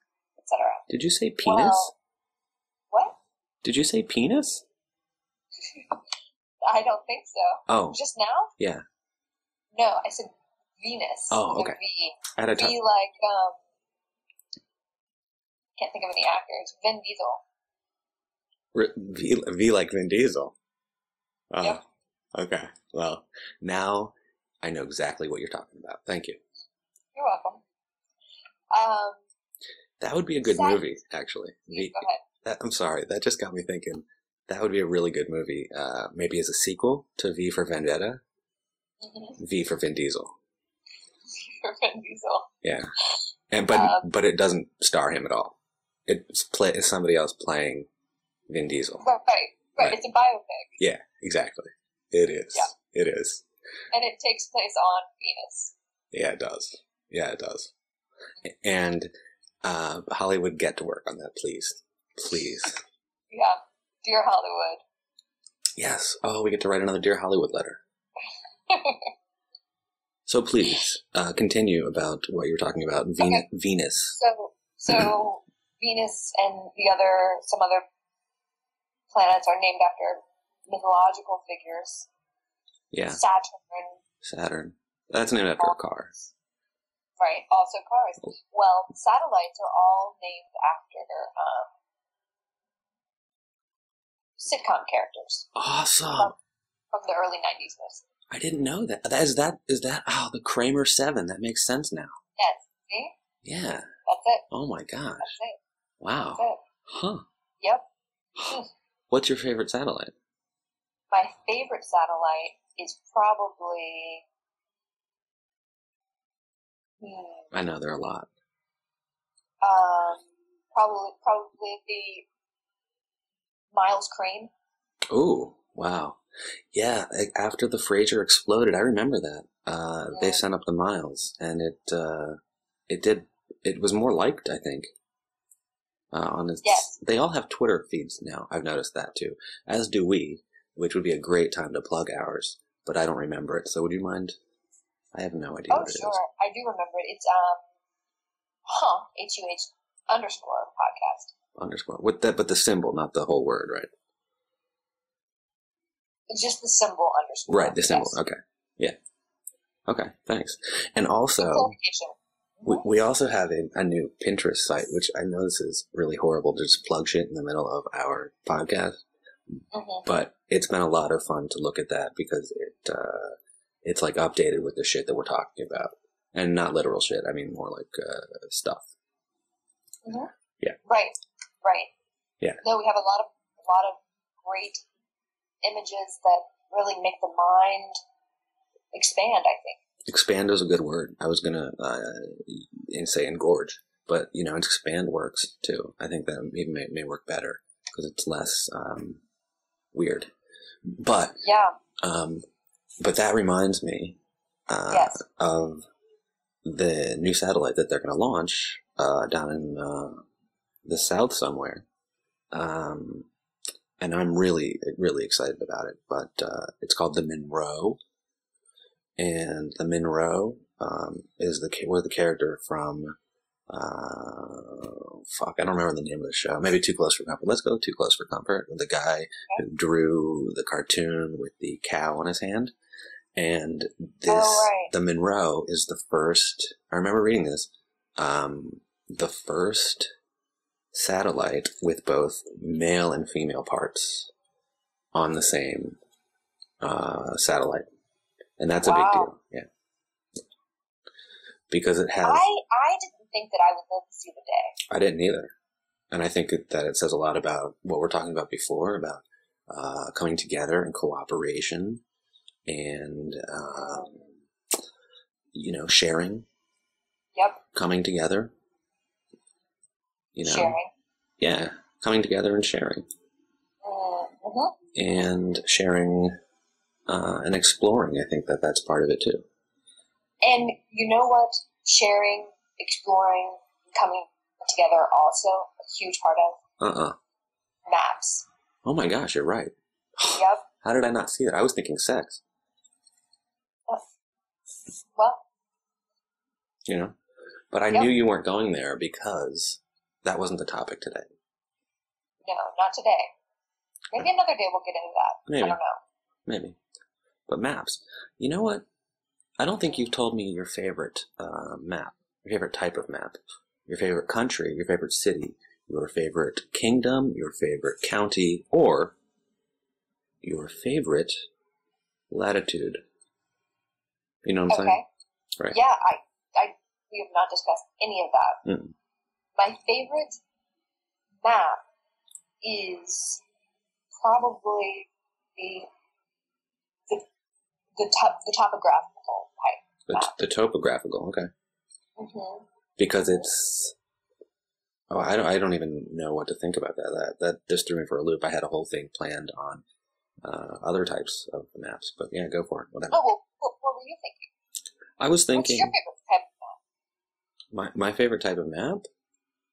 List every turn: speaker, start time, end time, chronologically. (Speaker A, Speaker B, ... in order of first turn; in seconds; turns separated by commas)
Speaker A: 0.4-0.9, Speaker B: 0.9-1.9, Speaker A: 1.4-1.9, Speaker A: 2.9-3.2, Speaker B: 3.6-4.6, Speaker A: 5.7-6.0, Speaker A: 6.6-8.5, Speaker B: 7.7-8.0, Speaker B: 8.6-8.8, Speaker A: 9.7-13.6, Speaker B: 11.3-11.8, Speaker B: 12.3-12.7, Speaker A: 15.8-17.4, Speaker B: 18.7-20.5, Speaker B: 21.5-21.8, Speaker B: 22.3-26.4, Speaker A: 27.1-27.6, Speaker A: 28.7-29.2, Speaker B: 30.0-38.2, Speaker A: 30.4-30.8, Speaker A: 31.7-32.2, Speaker A: 39.0-39.4, Speaker B: 39.4-40.3, Speaker A: 41.4-42.5, Speaker B: 42.6-42.9, Speaker B: 43.5-47.9, Speaker A: 43.7-44.1, Speaker B: 48.5-49.0, Speaker A: 49.0-50.8, Speaker B: 50.8-53.4, Speaker A: 53.9-55.7, Speaker B: 56.1-57.7, Speaker B: 58.4-59.1, Speaker B: 59.6-62.8, Speaker A: 63.3-64.8, Speaker B: 65.8-67.8, Speaker A: 68.7-69.1, Speaker B: 70.2-74.2, Speaker A: 73.2-73.4, Speaker A: 74.1-77.8, Speaker A: 79.1-82.1, Speaker B: 82.9-83.2, Speaker A: 83.1-84.0, Speaker B: 84.2-86.1, Speaker A: 87.2-91.7, Speaker A: 94.4-95.5, Speaker B: 95.5-96.3, Speaker A: 96.9-98.0, Speaker B: 98.3-102.2, Speaker A: 102.4-103.1, Speaker B: 103.4-103.9, Speaker A: 104.0-104.4, Speaker B: 104.5-105.3, Speaker A: 105.2-105.6, Speaker B: 106.0-107.2, Speaker A: 106.3-106.6, Speaker A: 107.6-107.8, Speaker B: 109.1-110.1, Speaker A: 111.1-114.2, Speaker A: 117.0-117.5, Speaker B: 117.5-118.3, Speaker A: 119.6-122.2, Speaker A: 123.7-124.5, Speaker B: 125.1-126.2, Speaker B: 126.7-134.9, Speaker A: 130.1-130.4, Speaker B: 136.1-144.3, Speaker A: 136.6-136.9, Speaker B: 145.1-146.2, Speaker A: 145.7-147.6, Speaker A: 148.7-151.3, Speaker B: 151.6-153.9, Speaker A: 156.3-158.2, Speaker B: 157.5-159.0, Speaker B: 159.9-161.7, Speaker A: 161.4-162.8, Speaker B: 162.6-169.0, Speaker A: 169.7-170.1, Speaker B: 170.0-178.9, Speaker A: 180.0-180.3, Speaker A: 180.8-181.9, Speaker A: 182.6-184.8, Speaker A: 185.6-188.0, Speaker A: 188.9-189.8, Speaker B: 190.1-199.2, Speaker B: 199.9-200.3, Speaker B: 200.8-201.4, Speaker A: 201.4-201.7, Speaker B: 202.0-202.4, Speaker B: 203.0-205.8, Speaker A: 204.9-205.2, Speaker B: 206.6-210.2, Speaker B: 210.8-211.8, Speaker B: 212.5-213.3, Speaker B: 214.0-218.0, Speaker B: 219.2-223.1, Speaker B: 223.7-232.7, Speaker B: 233.3-240.1, Speaker A: 234.3-234.9, Speaker B: 240.9-244.3, Speaker B: 245.1-246.0, Speaker B: 246.8-247.8, Speaker B: 248.6-249.7, Speaker A: 248.8-249.3, Speaker B: 251.7-252.4, Speaker A: 252.2-254.8, Speaker B: 254.9-255.5, Speaker B: 256.1-262.0, Speaker B: 262.7-264.3, Speaker A: 263.8-264.1, Speaker B: 265.5-266.4, Speaker A: 267.3-267.6, Speaker B: 267.7-268.5, Speaker B: 270.3-270.8, Speaker A: 270.4-270.9, Speaker B: 271.4-273.0, Speaker A: 273.8-274.7, Speaker B: 274.9-276.3, Speaker B: 277.1-279.4, Speaker A: 280.4-286.6, Speaker B: 286.8-287.2, Speaker A: 287.9-288.4, Speaker B: 288.8-292.4, Speaker A: 290.3-290.6, Speaker A: 295.1-295.4, Speaker B: 296.9-297.1, Speaker B: 297.7-301.3, Speaker A: 302.4-303.3, Speaker A: 304.1-306.0, Speaker B: 305.5-305.8, Speaker B: 306.4-306.8, Speaker B: 307.5-308.8, Speaker B: 309.6-319.1, Speaker B: 320.4-321.3, Speaker B: 322.3-323.0, Speaker B: 324.4-325.0, Speaker A: 324.7-325.1, Speaker A: 325.7-328.6, Speaker B: 328.6-328.9, Speaker A: 329.6-330.4, Speaker A: 331.4-331.8, Speaker A: 332.6-333.4, Speaker A: 334.2-335.9, Speaker A: 338.0-340.3, Speaker B: 340.1-341.5, Speaker A: 342.2-342.6, Speaker B: 343.0-343.9, Speaker B: 345.1-349.8, Speaker B: 350.4-353.2, Speaker A: 353.1-354.5, Speaker B: 355.2-355.9, Speaker A: 355.5-356.8, Speaker B: 357.7-359.1